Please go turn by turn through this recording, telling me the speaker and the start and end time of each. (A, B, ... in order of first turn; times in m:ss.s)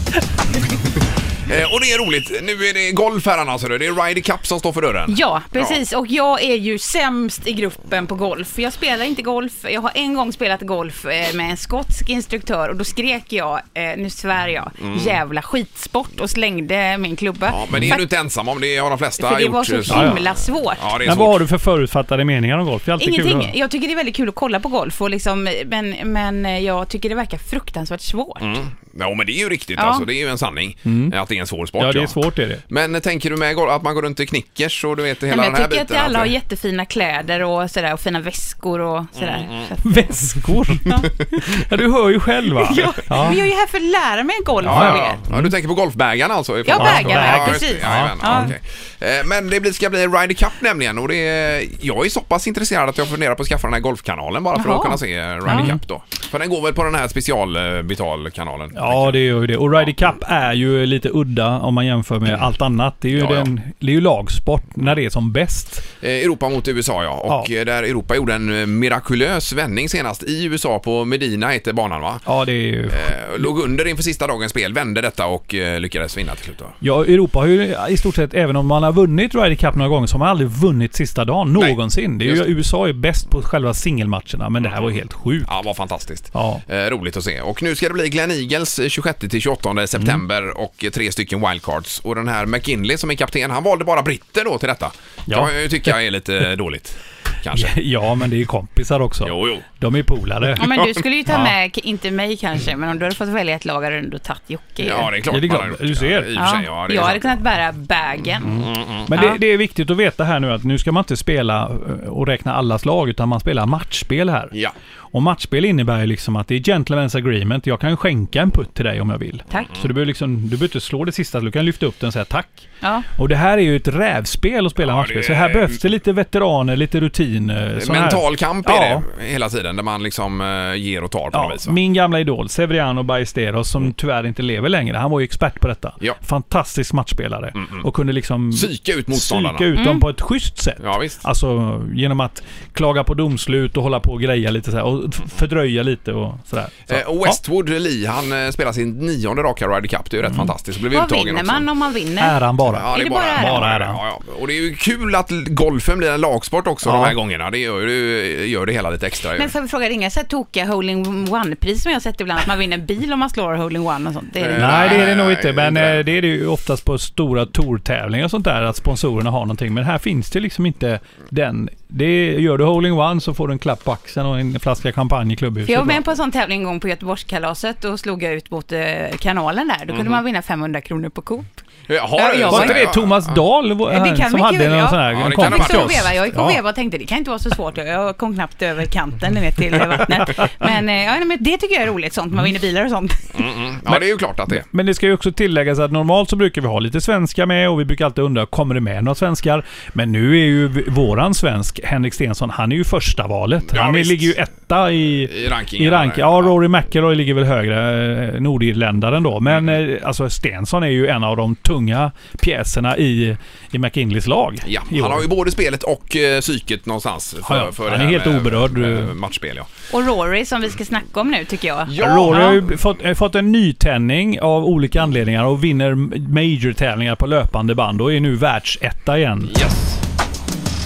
0:01.4-0:05.8 A
0:05.1-0:18.0 B
0:14.8-0:15.2 A
0:17.4-0:21.4 A
0:19.2-0:20.9 B
0:19.9-0:20.2 C
0:21.0-0:23.5 C
0:23.0-0:28.5 B
0:28.4-0:32.2 A
0:29.8-0:30.0 B
0:30.8-0:31.1 C
0:31.8-0:32.6 C
0:32.7-0:36.3 A
0:35.3-0:39.9 B
0:39.2-0:39.7 A
0:39.8-0:43.4 C
0:42.6-0:45.2 B
0:44.6-0:45.5 C
0:44.6-0:59.2 A
0:46.6-0:48.5 B
0:46.8-0:48.5 C
0:54.5-0:55.7 B
0:55.5-0:55.8 C
0:58.7-1:05.8 C
1:03.1-1:03.5 A
1:06.0-1:12.2 A
1:12.2-1:13.1 C
1:12.9-1:16.8 A
1:16.8-1:25.5 C
1:21.5-1:22.4 A
1:24.6-1:37.7 A
1:26.3-1:26.6 C
1:35.3-1:35.5 C
1:37.5-1:40.7 C
1:39.2-1:39.6 A
1:40.6-1:45.1 B
1:40.6-1:41.0 A
1:41.3-1:41.5 C
1:44.8-1:47.4 A
1:45.3-1:46.4 C
1:46.3-1:49.4 B
1:48.4-1:54.5 C
1:48.6-1:49.1 A
1:55.1-2:09.0 C
2:02.8-2:03.1 B
2:04.8-2:05.8 A
2:07.8-2:11.8 A
2:11.3-2:27.4 C
2:17.5-2:17.8 A
2:18.5-2:19.7 A
2:19.8-2:20.0 B
2:20.8-2:21.2 A
2:26.9-2:31.6 A
2:30.9-2:32.4 B
2:32.2-2:34.0 C
2:32.7-2:39.5 A
2:32.9-2:33.7 B
2:36.8-2:37.1 C
2:39.4-2:45.0 B
2:44.4-2:46.0 A
2:44.6-2:56.0 C
2:55.6-3:01.6 B
2:59.9-3:00.2 A
3:01.9-3:03.4 A
3:02.1-3:02.8 B
3:02.5-3:06.6 C
3:03.9-3:13.3 B
3:05.1-3:06.1 A
3:13.3-3:14.6 A
3:13.9-3:35.3 C
3:23.7-3:24.3 A
3:25.3-3:26.5 A
3:34.6-3:39.7 A
3:37.4-3:39.1 C
3:39.9-3:42.6 B
3:41.9-3:42.6 A
3:42.0-3:49.6 C
3:49.5-3:50.0 A